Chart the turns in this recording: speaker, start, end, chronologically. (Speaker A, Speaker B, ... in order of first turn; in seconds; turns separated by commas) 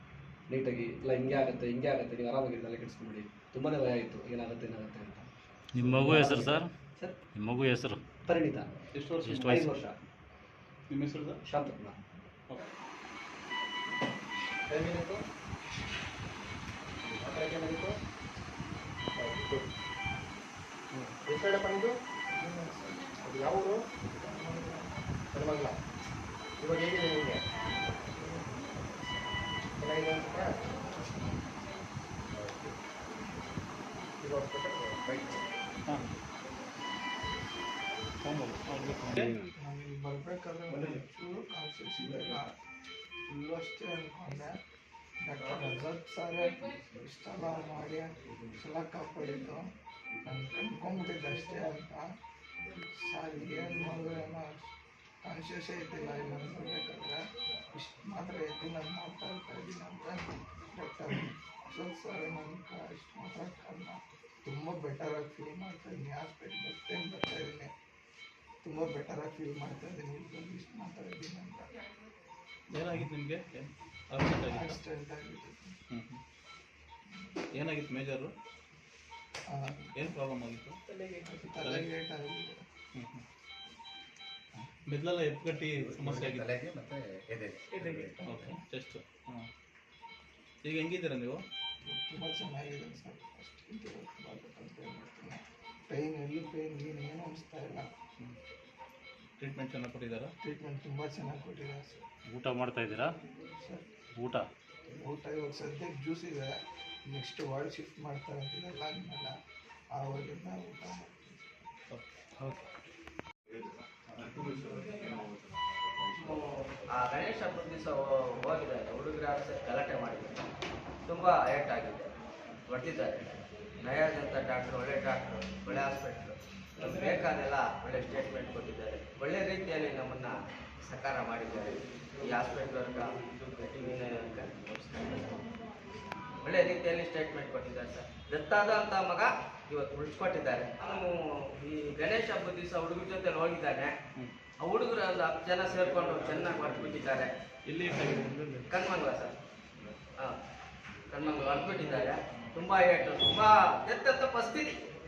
Speaker A: 0.5-5.3, Speaker B: 5.7-6.7, Speaker A: 5.8-7.2, Speaker B: 7.3-8.0, Speaker A: 8.2-8.7, Speaker C: 8.9-9.4, Speaker B: 9.2-9.8, Speaker A: 9.3-9.9, Speaker C: 10.9-11.4, Speaker A: 11.4-12.0, Speaker D: 14.7-15.2, Speaker D: 17.1-18.0, Speaker D: 19.2-19.7, Speaker D: 21.3-21.9, Speaker E: 22.4-23.1, Speaker D: 23.2-23.8, Speaker E: 24.3-24.8, Speaker D: 25.3-25.8, Speaker D: 26.6-27.4, Speaker D: 29.8-30.6, Speaker D: 32.3-32.8, Speaker D: 34.2-35.4, Speaker C: 38.2-39.4, Speaker E: 39.6-42.5, Speaker E: 43.3-44.6, Speaker E: 45.2-49.7, Speaker E: 50.2-52.1, Speaker E: 52.9-54.7, Speaker E: 55.2-57.2, Speaker E: 57.7-67.7, Speaker E: 68.6-71.7, Speaker C: 72.7-74.8, Speaker E: 74.4-75.8, Speaker C: 75.9-76.2, Speaker E: 77.1-77.4, Speaker C: 77.5-78.3, Speaker E: 79.5-80.2, Speaker C: 80.0-80.8, Speaker E: 81.2-82.6, Speaker C: 81.6-81.9, Speaker C: 83.0-83.2, Speaker C: 84.9-86.5, Speaker D: 85.7-88.6, Speaker C: 88.2-89.5, Speaker C: 90.6-91.4, Speaker E: 91.9-97.9, Speaker C: 99.4-100.3, Speaker E: 100.4-102.0, Speaker B: 102.3-103.1, Speaker E: 103.6-103.9, Speaker B: 104.2-104.5, Speaker E: 105.0-106.5, Speaker E: 107.1-109.3, Speaker E: 109.9-111.7, Speaker F: 116.1-120.4, Speaker F: 121.1-122.2, Speaker F: 122.7-135.4, Speaker F: 136.4-143.9, Speaker F: 144.6-147.3, Speaker C: 147.7-148.7, Speaker F: 148.7-149.3, Speaker F: 151.1-154.8